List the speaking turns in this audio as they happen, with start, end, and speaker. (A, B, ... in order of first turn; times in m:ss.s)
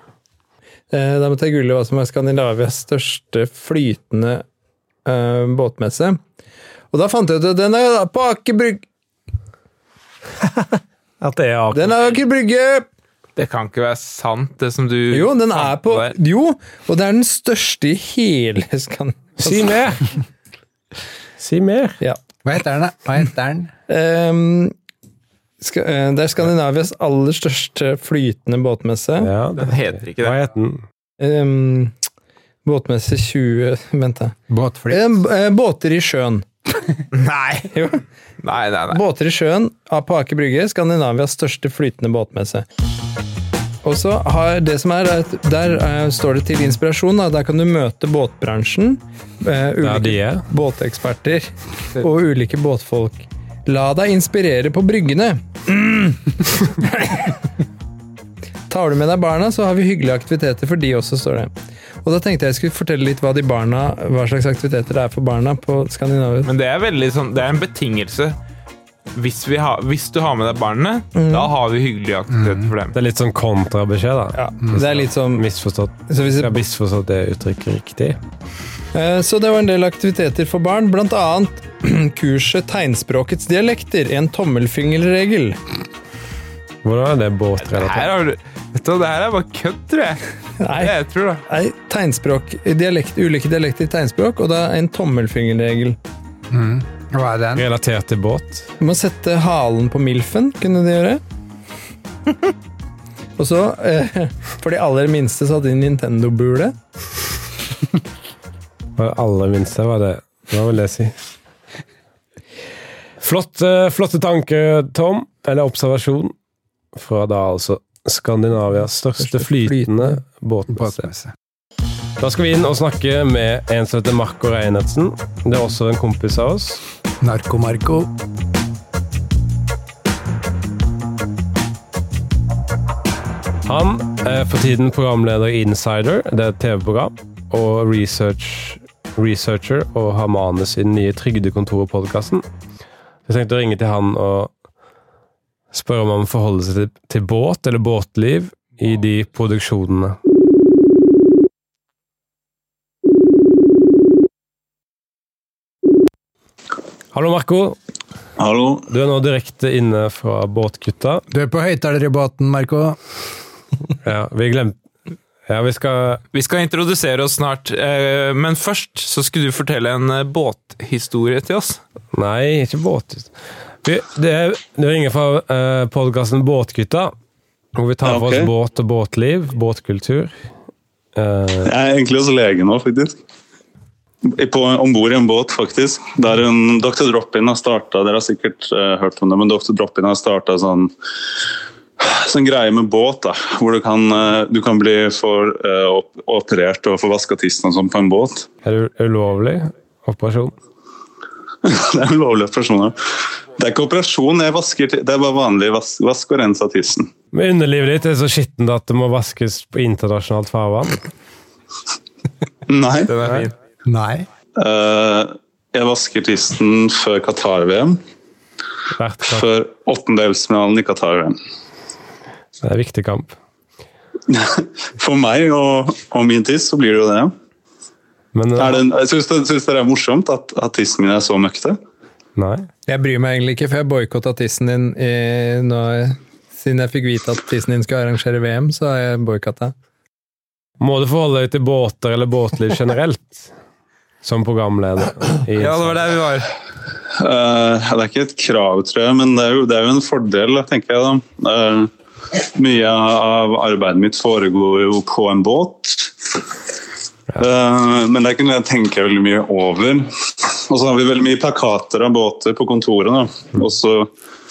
0:00.9-0:04.4 A
0:05.0-0:06.2 A
0:06.9-0:08.8 A
0:11.2-0:11.9 B
0:11.7-0:12.9 A
0:13.4-0:16.1 C
0:15.1-0:19.6 A
0:19.4-0:20.2 B
0:21.4-0:22.0 B
0:22.4-0:23.7 D
0:23.9-0:24.7 A
0:25.6-0:29.3 A
0:29.2-0:30.8 B
0:29.6-0:30.4 C
0:31.2-0:31.9 A
0:32.6-0:34.4 A
0:34.5-0:35.1 D
0:34.9-0:36.5 A
0:37.1-0:37.7 C
0:37.7-0:38.0 A
0:38.4-0:39.0 C
0:38.9-0:42.6 A
0:43.8-0:57.4 A
0:49.8-0:50.4 B
0:58.7-1:01.5 A
1:02.0-1:06.5 A
1:06.4-1:08.4 C
1:09.1-1:13.0 C
1:11.1-1:11.5 A
1:12.3-1:12.7 D
1:12.9-1:18.2 B
1:14.3-1:15.4 A
1:16.1-1:16.6 A
1:18.9-1:25.6 A
1:26.8-1:28.1 B
1:27.7-1:31.4 C
1:30.6-1:30.9 A
1:31.5-1:36.0 A
1:36.5-1:37.6 D
1:37.6-1:38.7 B
1:38.8-1:41.2 A
1:43.4-1:46.7 A
1:49.0-1:51.1 B
1:53.2-1:56.3 B
1:56.9-2:01.1 B
1:59.2-2:00.2 A
2:00.7-2:01.3 D
2:02.2-2:06.8 B
2:07.2-2:08.1 D
2:13.6-2:22.4 B
2:23.2-2:24.5 B
2:25.7-2:30.2 B
2:37.1-2:37.8 B
2:38.4-2:38.8 E
2:38.9-2:41.2 B
2:41.3-2:43.0 D
2:44.0-2:44.8 B
2:45.5-2:46.2 B
2:46.3-2:51.8 C
2:52.1-2:53.3 B
2:53.8-2:57.1 B
2:57.7-3:00.3 B
2:58.0-2:58.5 E
3:01.1-3:01.7 B
3:01.6-3:03.2 E
3:04.2-3:10.9 E
3:12.0-3:18.5 E
3:18.6-3:20.6 B
3:21.6-3:23.0 E
3:23.6-3:27.1 E
3:27.3-3:31.0 B
3:32.7-3:33.1 E
3:33.1-3:33.5 C
3:33.8-3:34.3 D
3:34.6-3:38.0 E
3:39.0-3:39.4 B
3:39.3-3:41.4 E
3:42.6-3:43.3 B
3:44.3-3:47.3 E
3:48.3-3:48.8 B
3:48.6-3:51.8 E
3:52.4-3:52.7 B
3:52.9-3:59.7 A
4:00.8-4:03.5 B
4:04.2-4:06.0 B
4:05.6-4:06.5 C
4:07.1-4:16.4 E
4:17.4-4:24.1 E